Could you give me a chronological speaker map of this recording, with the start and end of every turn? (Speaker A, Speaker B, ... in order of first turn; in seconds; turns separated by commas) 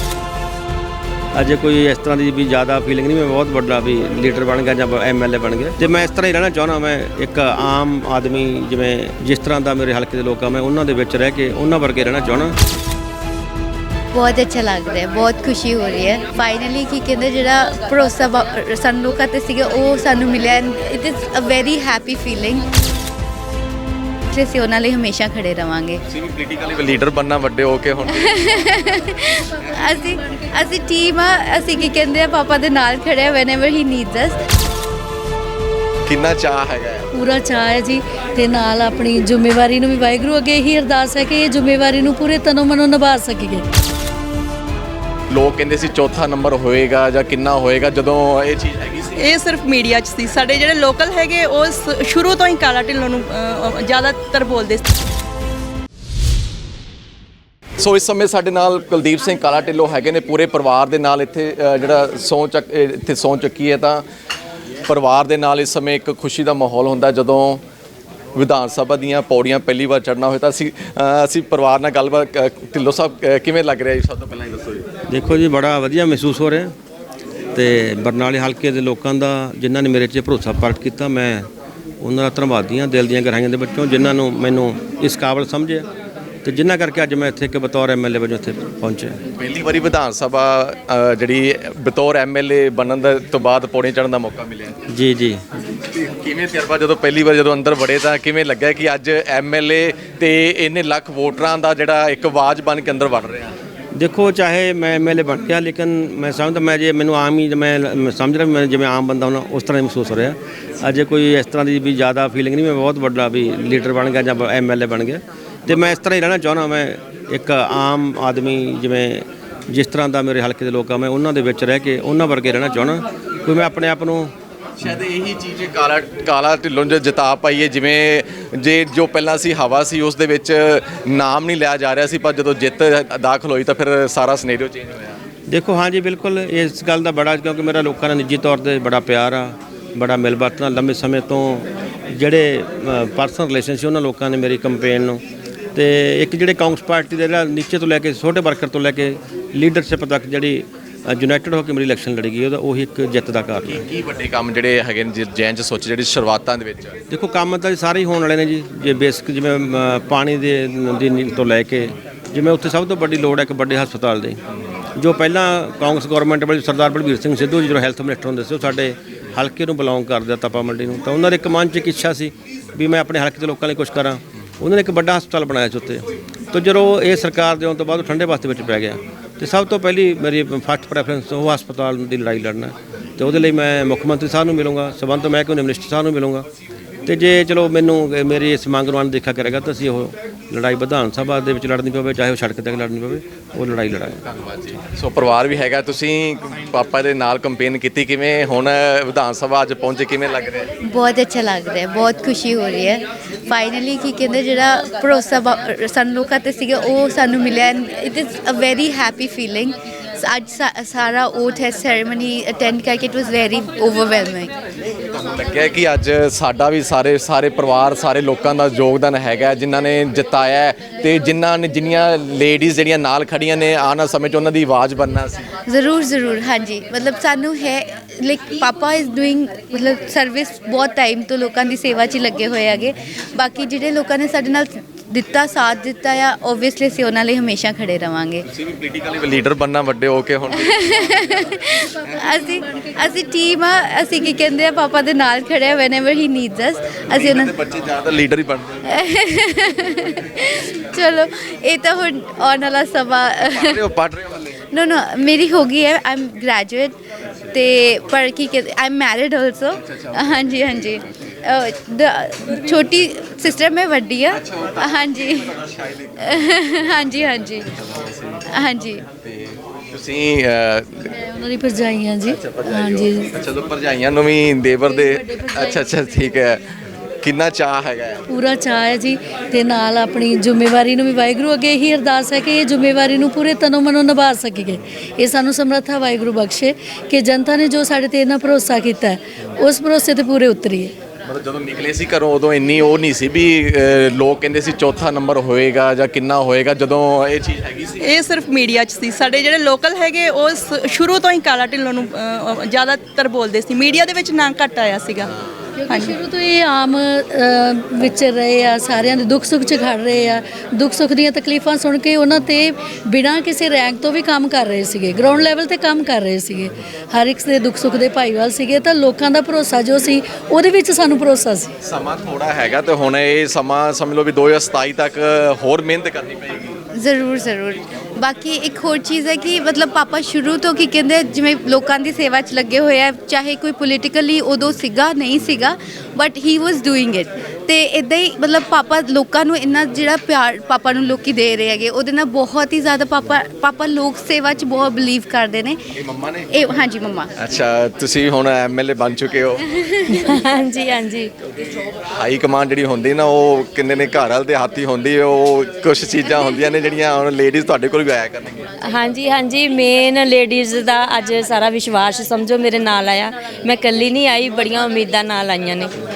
Speaker A: 1.4-12.6, Speaker B: 14.1-22.7, Speaker B: 24.3-26.0, Speaker C: 26.1-28.3, Speaker B: 28.2-34.4, Speaker C: 36.1-37.1, Speaker D: 37.1-43.6, Speaker C: 45.3-49.2, Speaker E: 49.2-54.9, Speaker C: 57.8-64.0, Speaker C: 64.9-67.6, Speaker C: 68.3-74.9, Speaker A: 75.1-76.7, Speaker A: 77.5-81.5, Speaker A: 82.0-85.9, Speaker A: 86.5-89.2, Speaker C: 89.3-94.8, Speaker A: 94.9-95.4, Speaker C: 95.9-103.5, Speaker A: 104.0-124.3, Speaker C: 124.8-135.2, Speaker A: 135.5-145.2, Speaker A: 145.8-153.8, Speaker C: 153.7-157.0, Speaker A: 157.1-164.4, Speaker A: 165.0-186.5, Speaker A: 187.1-194.2, Speaker C: 194.2-200.7, Speaker B: 200.8-214.5, Speaker C: 215.1-225.5, Speaker B: 225.7-238.4, Speaker C: 238.5-240.9, Speaker B: 240.6-247.5, Speaker C: 247.1-248.8, Speaker B: 248.9-253.8, Speaker C: 253.5-254.6, Speaker B: 254.7-257.0, Speaker B: 257.5-265.5, Speaker C: 264.3-266.2, Speaker B: 266.2-267.7, Speaker C: 267.8-268.4, Speaker B: 268.5-269.0, Speaker C: 269.2-271.1, Speaker D: 271.2-273.3, Speaker C: 272.3-276.6, Speaker D: 274.9-275.9, Speaker C: 277.2-278.2, Speaker D: 278.3-290.9, Speaker C: 291.2-298.1, Speaker E: 298.0-305.3, Speaker D: 305.8-321.7, Speaker E: 305.9-306.1, Speaker C: 321.8-326.8, Speaker B: 326.9-345.8, Speaker C: 346.0-346.5, Speaker B: 346.5-347.3, Speaker C: 347.4-349.7, Speaker F: 350.1-351.3, Speaker C: 352.0-358.7, Speaker F: 358.8-365.9